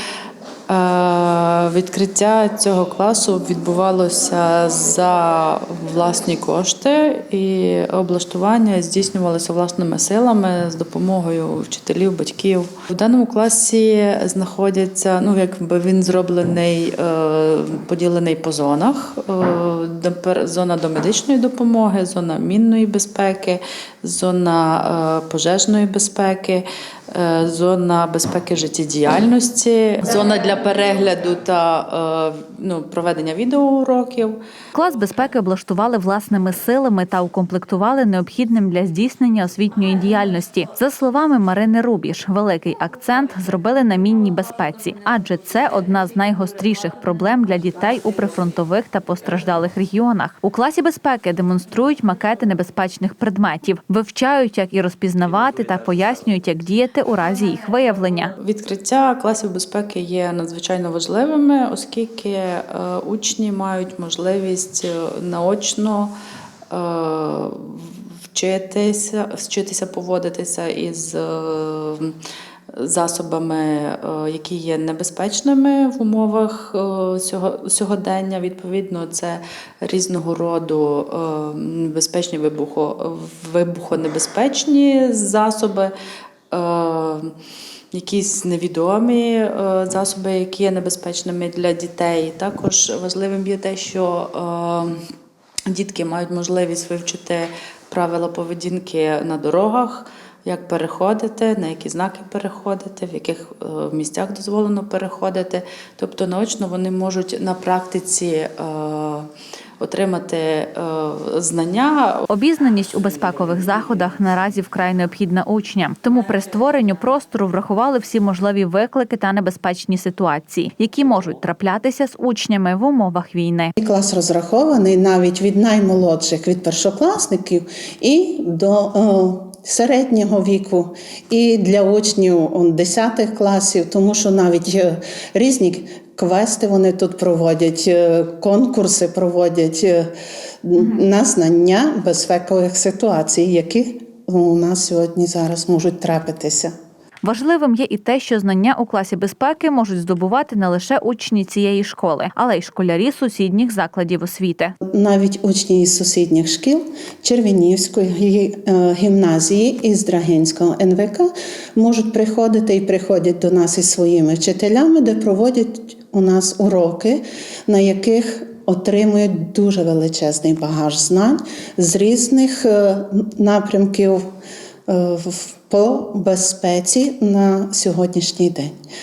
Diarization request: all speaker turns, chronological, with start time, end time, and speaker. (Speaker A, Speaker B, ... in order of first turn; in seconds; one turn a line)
Speaker A: 0.7-34.4
Speaker B: 34.7-58.3
Speaker A: 58.4-66.1
Speaker A: 66.7-72.2
Speaker A: 72.7-85.9
Speaker A: 86.5-87.3
Speaker A: 87.9-95.0
Speaker A: 95.7-109.3
Speaker A: 109.8-112.2
Speaker B: 112.3-123.7
Speaker C: 123.8-140.1
Speaker C: 140.6-146.7
Speaker B: 147.2-154.7
Speaker C: 154.9-174.2
Speaker C: 174.9-178.7